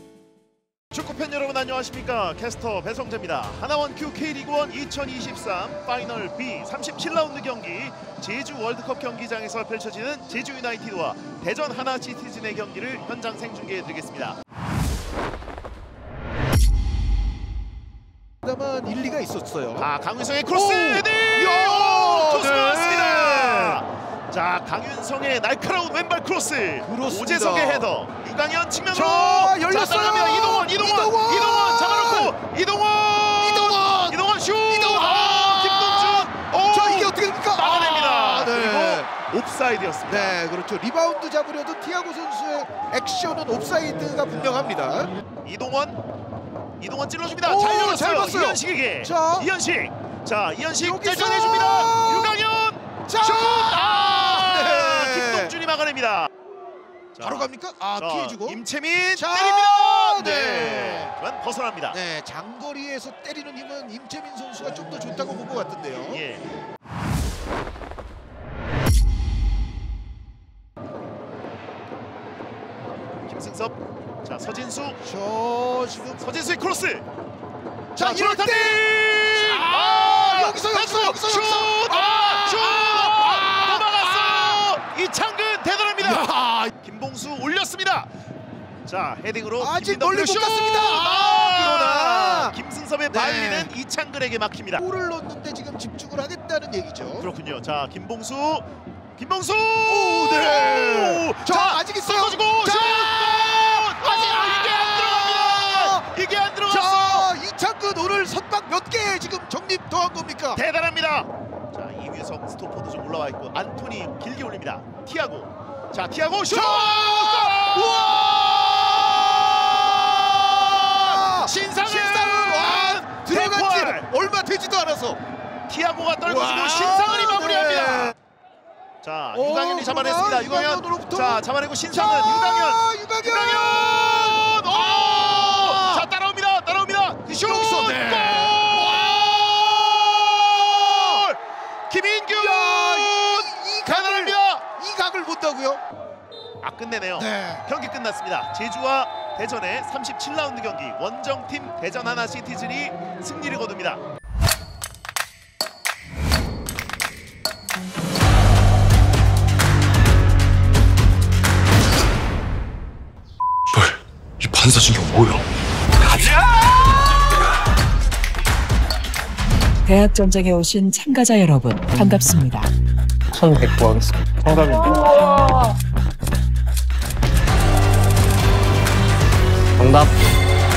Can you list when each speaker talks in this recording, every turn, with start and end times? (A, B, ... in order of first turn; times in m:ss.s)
0:00.9-0:14.4 A
0:18.4-0:19.9 B
0:19.8-0:40.4 A
0:20.5-0:23.8 B
0:26.8-0:27.9 B
0:28.9-0:32.4 B
0:33.3-0:39.1 B
0:40.0-0:45.1 B
0:45.4-0:46.0 A
0:46.8-0:56.3 A
0:47.4-0:49.5 B
0:50.8-0:52.4 B
0:53.0-0:55.6 B
0:57.1-1:02.0 A
0:57.2-0:58.6 B
0:59.1-1:01.1 B
1:01.9-1:06.2 B
1:06.1-1:06.5 A
1:13.3-1:15.0 A
1:15.0-1:16.2 B
1:16.1-1:17.0 A
1:17.9-1:24.6 B
1:18.0-1:28.1 A
1:26.0-1:26.7 B
1:28.8-1:34.8 A
1:29.6-1:32.6 B
1:33.1-1:33.7 B
1:34.8-1:37.3 B
1:37.2-1:47.3 A
1:39.8-1:46.2 B
1:46.7-1:50.6 B
1:50.5-2:04.1 A
1:56.5-2:05.2 B
2:05.7-2:08.2 A
2:06.2-2:08.2 B
2:09.0-2:24.7 A
2:09.3-2:16.1 B
2:17.3-2:21.3 B
2:22.3-2:25.8 B
2:26.6-2:34.0 A
2:27.2-2:27.6 B
2:43.8-2:45.4 C
2:49.8-2:52.7 D
2:53.3-2:55.0 C
2:59.8-3:00.1 C